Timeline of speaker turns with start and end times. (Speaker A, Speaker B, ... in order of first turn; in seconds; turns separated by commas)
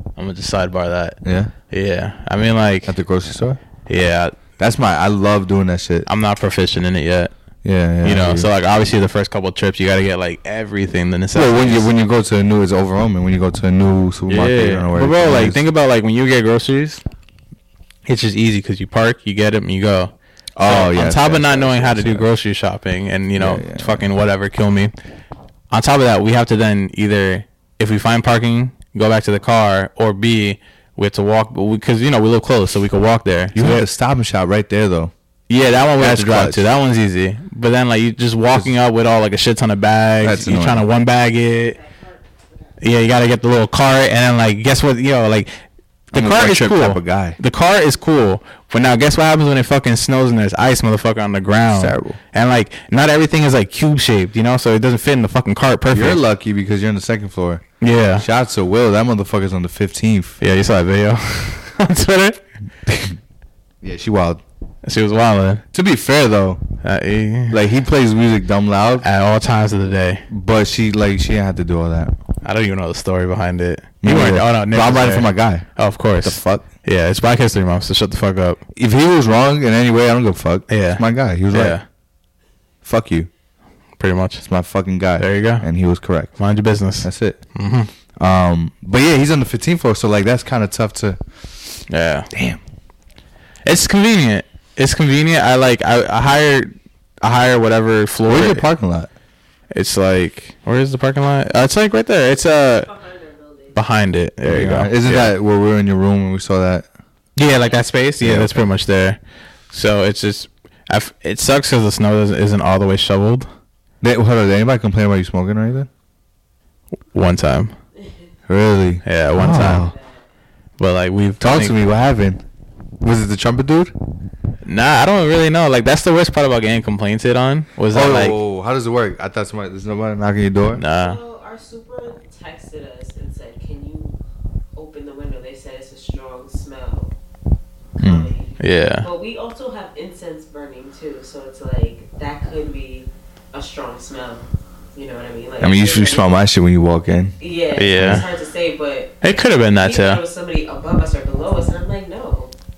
Speaker A: 0.2-1.2, Speaker B: 1.2-1.5, Speaker A: 1.7-3.0, Speaker B: 2.9-3.6, Speaker A: 3.9-4.4, Speaker B: 4.6-6.1, Speaker A: 6.1-7.3, Speaker B: 7.6-8.5, Speaker A: 8.0-11.9, Speaker B: 11.3-15.6, Speaker A: 14.3-17.0, Speaker A: 18.1-20.1, Speaker B: 20.6-22.3, Speaker A: 20.6-24.9, Speaker B: 23.4-24.0, Speaker A: 25.7-33.9, Speaker B: 33.5-35.1, Speaker A: 35.5-41.8, Speaker B: 36.0-36.6, Speaker B: 40.2-40.9, Speaker C: 41.8-42.7, Speaker A: 42.8-45.5, Speaker B: 46.1-47.4, Speaker A: 46.1-56.2, Speaker B: 51.7-52.2, Speaker B: 55.9-57.6, Speaker A: 57.8-58.3, Speaker B: 58.2-60.4, Speaker A: 60.4-62.4, Speaker B: 63.8-64.4, Speaker A: 64.8-65.7, Speaker B: 65.7-66.6, Speaker A: 66.8-67.6, Speaker B: 67.5-69.0, Speaker A: 69.0-70.2, Speaker B: 70.3-72.1, Speaker A: 72.4-78.6, Speaker B: 74.0-75.7, Speaker B: 76.2-76.7, Speaker B: 78.8-81.8, Speaker A: 80.7-81.8, Speaker B: 82.8-83.3, Speaker A: 84.0-84.4, Speaker B: 84.4-86.3, Speaker A: 85.2-85.7, Speaker A: 86.4-87.9, Speaker B: 87.0-87.4, Speaker B: 88.2-91.2, Speaker A: 91.9-92.3, Speaker B: 92.3-92.6, Speaker A: 93.7-98.7, Speaker B: 98.3-99.1, Speaker A: 99.7-102.9, Speaker C: 102.9-103.8, Speaker A: 103.7-105.3, Speaker B: 104.5-106.9, Speaker A: 107.4-109.2, Speaker B: 108.2-108.5, Speaker A: 109.7-113.5, Speaker B: 114.0-115.9, Speaker A: 117.1-117.8, Speaker B: 118.5-120.0, Speaker A: 119.0-119.9, Speaker C: 119.6-120.1, Speaker A: 120.8-121.8, Speaker B: 121.4-122.4, Speaker B: 123.0-123.9, Speaker A: 124.7-128.4, Speaker B: 127.9-130.8, Speaker A: 130.8-131.2, Speaker C: 130.9-134.2, Speaker C: 134.8-137.1, Speaker C: 138.0-146.3, Speaker B: 138.0-138.3, Speaker A: 138.6-139.1, Speaker B: 145.6-147.4, Speaker C: 147.4-149.2, Speaker A: 147.8-148.3, Speaker B: 148.0-148.2, Speaker A: 149.2-150.2, Speaker C: 149.8-152.5